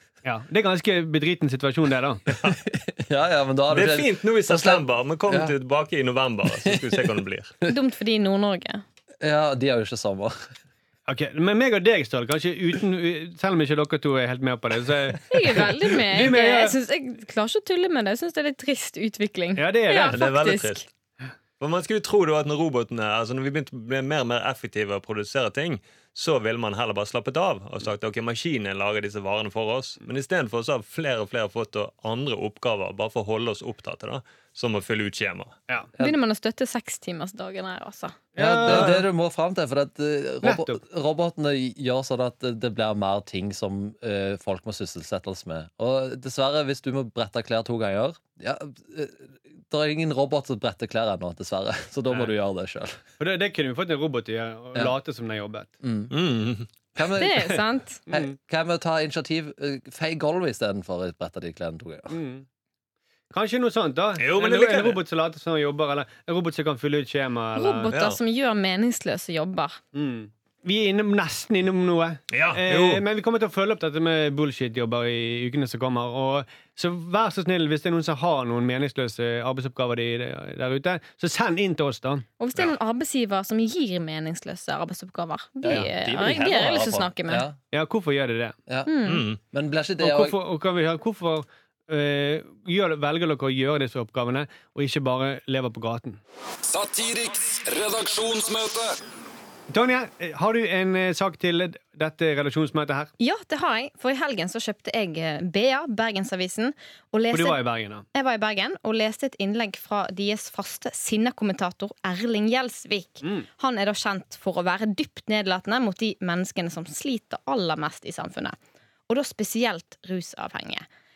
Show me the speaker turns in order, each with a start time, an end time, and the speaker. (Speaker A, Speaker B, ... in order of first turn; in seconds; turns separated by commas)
Speaker A: 0.2-2.2, Speaker B: 2.5-5.5, Speaker C: 3.7-7.5, Speaker B: 6.6-7.1, Speaker D: 7.7-8.8, Speaker B: 9.2-10.5, Speaker A: 11.1-16.8, Speaker D: 15.3-20.8, Speaker A: 19.6-20.2, Speaker C: 20.1-20.8, Speaker C: 21.6-35.5, Speaker D: 36.0-38.2, Speaker A: 38.3-39.0, Speaker B: 38.4-53.0, Speaker A: 40.4-40.8, Speaker A: 53.2-55.7, Speaker B: 55.8-56.1, Speaker C: 56.1-56.7, Speaker B: 57.0-62.1, Speaker D: 57.1-58.0, Speaker A: 58.1-58.3, Speaker A: 62.1-62.4, Speaker A: 63.3-67.9, Speaker C: 64.2-65.0, Speaker D: 67.5-69.8, Speaker C: 67.9-68.2, Speaker A: 69.9-82.2, Speaker C: 72.3-73.0, Speaker D: 82.4-87.5, Speaker B: 85.6-87.5, Speaker A: 87.7-88.5, Speaker B: 88.7-90.4, Speaker D: 88.8-89.2, Speaker C: 89.0-89.4, Speaker A: 90.0-96.2, Speaker E: 96.6-99.0, Speaker A: 99.7-103.1, Speaker D: 103.2-118.6, Speaker A: 107.3-108.0, Speaker A: 113.2-113.5, Speaker D: 119.1-120.8